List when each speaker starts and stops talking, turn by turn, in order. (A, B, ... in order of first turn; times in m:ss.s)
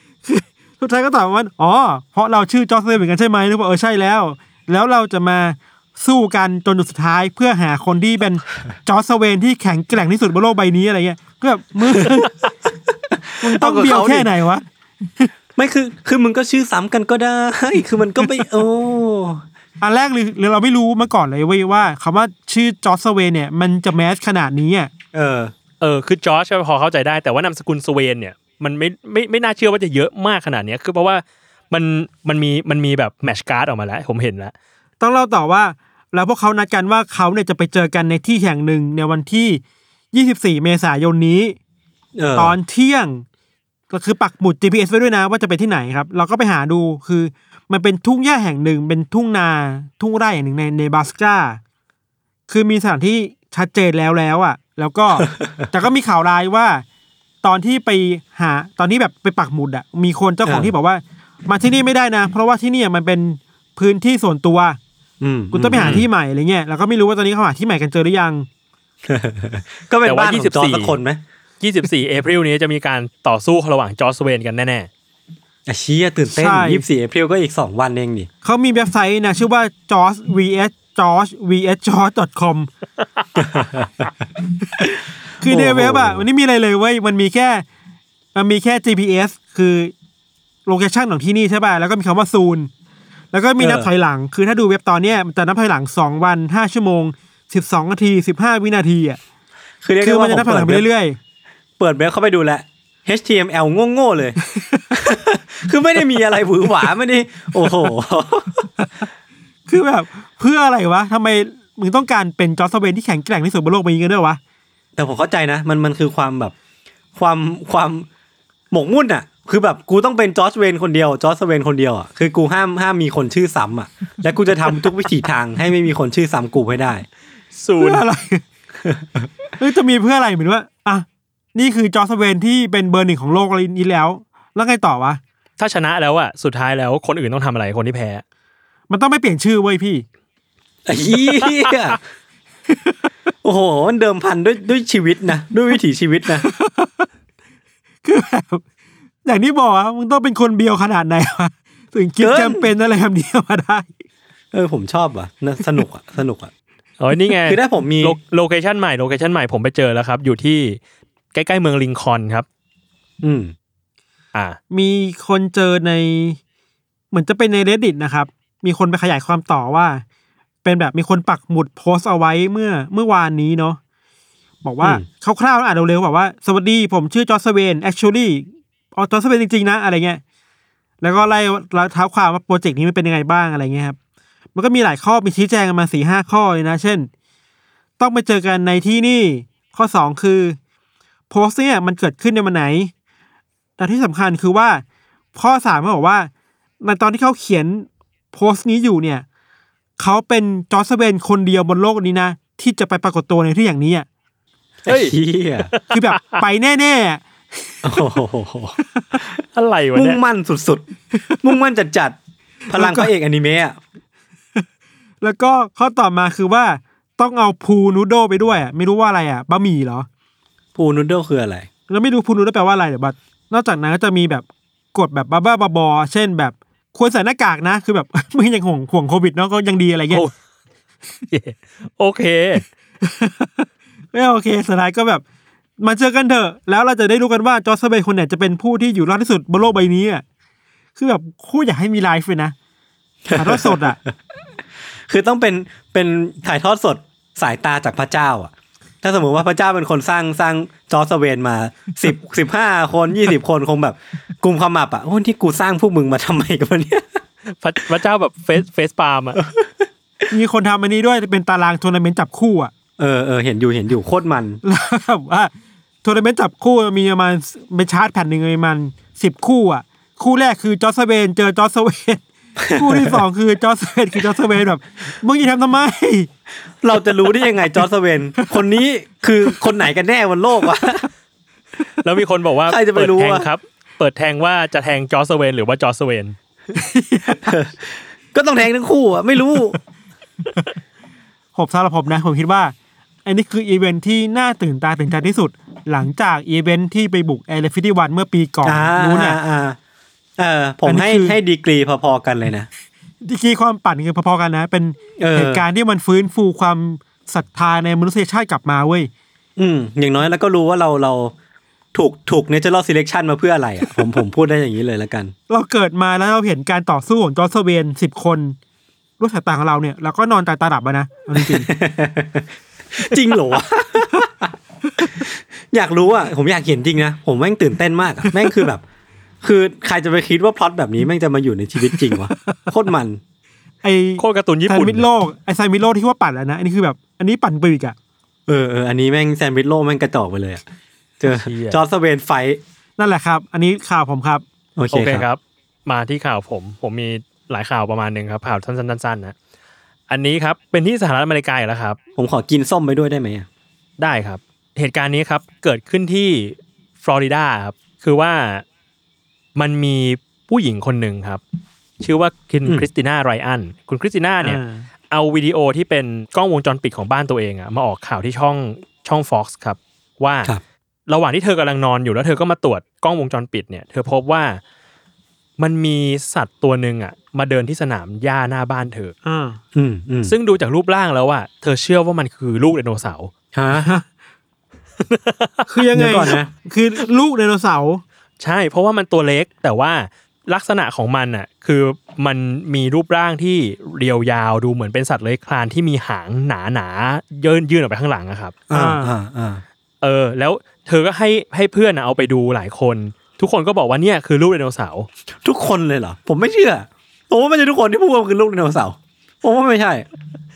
0:00.2-0:12.3 A
0:13.1-0:14.3 B
0:13.4-0:14.6 A
0:15.6-0:19.4 B
0:19.8-0:24.9 A
0:25.1-0:25.5 B
0:25.8-0:34.5 C
0:35.0-0:41.6 A
0:42.2-0:42.6 B
0:42.4-0:43.2 A
0:43.9-0:51.6 A
0:52.5-0:56.8 A
0:57.4-1:04.8 A
1:00.4-1:00.7 B
1:05.2-1:06.1 B
1:05.5-1:08.5 A
1:09.1-1:11.2 B
1:10.1-1:11.0 C
1:11.6-1:14.9 C
1:15.7-1:18.3 B
1:16.3-1:16.8 A
1:18.4-1:22.7 A
1:23.4-1:24.1 B
1:25.4-1:27.6 A
1:25.4-1:26.2 B
1:28.4-1:29.9 A
1:30.7-1:32.7 A
1:33.3-1:39.2 A
1:33.6-1:33.9 B
1:39.8-1:40.8 B
1:40.0-1:41.2 A
1:41.8-1:44.4 B
1:44.9-1:48.7 B
1:49.7-1:54.4 A
1:55.0-1:56.6 B
1:57.2-1:58.1 B
1:58.7-2:07.1 B
2:07.6-2:08.0 C
2:07.8-2:08.4 A
2:08.8-2:09.3 B
2:09.6-2:15.2 A
2:15.6-2:18.2 C
2:18.9-2:20.0 A
2:20.9-2:22.0 B
2:21.4-2:21.9 C
2:22.7-2:23.0 A
2:23.4-2:26.4 B
2:26.4-2:27.1 A
2:28.0-2:28.6 A
2:29.2-2:33.9 A
2:32.2-2:32.7 B
2:34.5-2:36.5 B
2:37.0-2:40.8 C
2:37.4-2:38.2 B
2:41.3-2:42.5 C
2:43.2-2:43.5 B
2:44.7-2:46.4 A
2:47.1-2:50.0 A
2:50.6-2:53.8 A
2:54.6-3:00.2 A
3:01.0-3:04.0 A
3:04.6-3:07.1 A
3:08.0-3:10.6 A
3:11.3-3:12.9 A
3:13.8-3:14.8 A
3:15.4-3:16.3 A
3:16.8-3:19.3 A
3:20.0-3:24.1 A
3:24.8-3:25.7 B
3:24.9-3:25.2 C
3:25.7-3:26.4 C
3:25.9-3:28.0 A
3:27.8-3:29.4 B
3:29.0-3:29.2 A
3:29.5-3:30.2 C
3:30.0-3:30.9 B
3:31.4-3:32.2 B
3:32.7-3:33.8 B
3:32.7-3:33.1 A
3:35.2-3:40.1 A
3:40.8-3:41.7 B
3:41.9-3:50.2 A
3:51.3-3:52.6 C
3:53.0-3:55.2 A
3:55.8-4:00.2 A
4:01.0-4:02.6 A
4:03.3-4:04.1 B
4:03.4-4:04.0 A
4:05.0-4:17.2 B
4:17.6-4:19.4 C
4:19.4-4:19.9 B
4:20.3-4:22.7 A
4:23.0-4:24.6 B
4:24.6-4:25.5 A
4:26.0-4:32.2 A
4:32.6-4:33.2 B
4:32.7-4:36.3 A
4:36.8-4:41.1 B
4:42.0-4:46.4 C
4:42.7-4:43.5 B
4:46.8-4:47.6 A
4:47.4-4:49.8 B
4:51.6-4:52.7 A
4:53.2-4:59.4 A
4:58.6-4:59.8 B
5:00.4-5:02.7 B
5:00.8-5:01.4 A
5:03.2-5:09.1 A
5:05.2-5:05.6 B
5:09.6-5:11.3 B
5:11.9-5:15.3 B
5:15.5-5:18.6 A
5:19.2-5:21.7 A
5:21.4-5:28.8 B
5:24.9-5:25.3 A
5:28.3-5:28.6 A
5:29.4-5:33.2 B
5:31.9-5:32.6 A
5:33.8-5:38.0 A
5:34.2-5:35.1 C
5:38.5-5:40.6 B
5:41.2-5:42.6 B
5:41.3-5:41.8 C
5:43.0-5:44.4 A
5:44.8-5:45.3 B
5:44.9-5:49.4 C
5:50.1-5:52.0 C
5:52.2-5:53.5 B
5:54.0-5:58.6 C
5:59.6-6:01.4 C
6:02.0-6:04.6 C
6:04.4-6:04.9 A
6:05.1-6:10.5 C
6:11.1-6:14.6 C
6:15.6-6:19.2 C
6:19.2-6:19.6 A
6:19.7-6:20.4 B
6:20.2-6:23.3 C
6:23.5-6:23.9 B
6:23.7-6:24.0 A
6:25.1-6:25.7 C
6:25.7-6:28.0 A
6:25.9-6:26.5 B
6:28.4-6:38.6 C
6:38.7-6:39.6 B
6:38.7-6:39.1 A
6:40.0-6:45.1 C
6:45.4-6:50.1 B